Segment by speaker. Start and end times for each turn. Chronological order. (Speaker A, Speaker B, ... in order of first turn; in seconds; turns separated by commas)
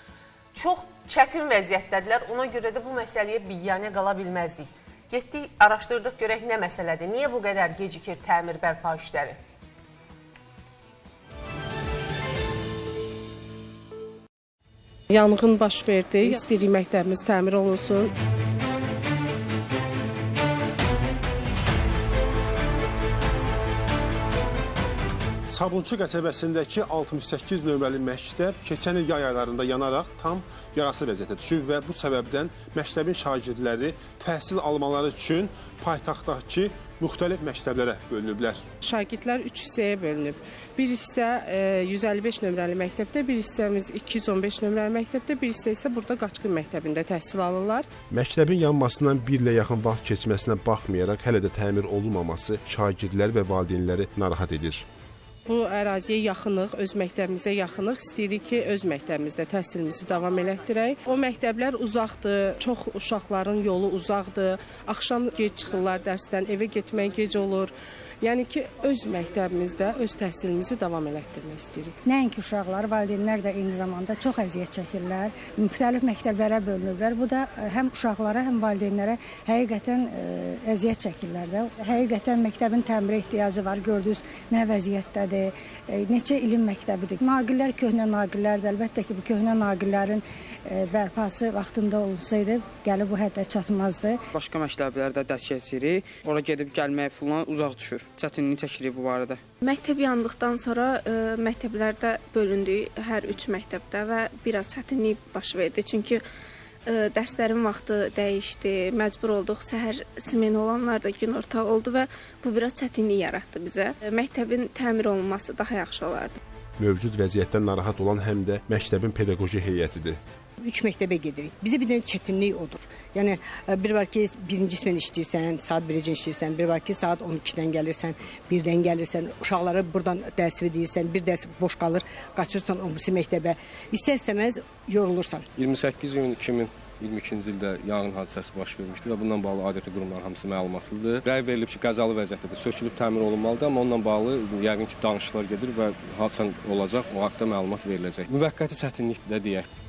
Speaker A: 0.5-9.4, Speaker B: 15.1-18.1, Speaker C: 25.5-38.6, Speaker B: 38.9-47.9, Speaker C: 48.1-54.8, Speaker B: 55.5-71.9, Speaker D: 72.0-94.2, Speaker E: 94.3-99.4, Speaker F: 99.6-106.2, Speaker F: 106.9-116.4, Speaker C: 116.8-120.2, Speaker G: 120.6-135.4, Speaker H: 135.6-149.7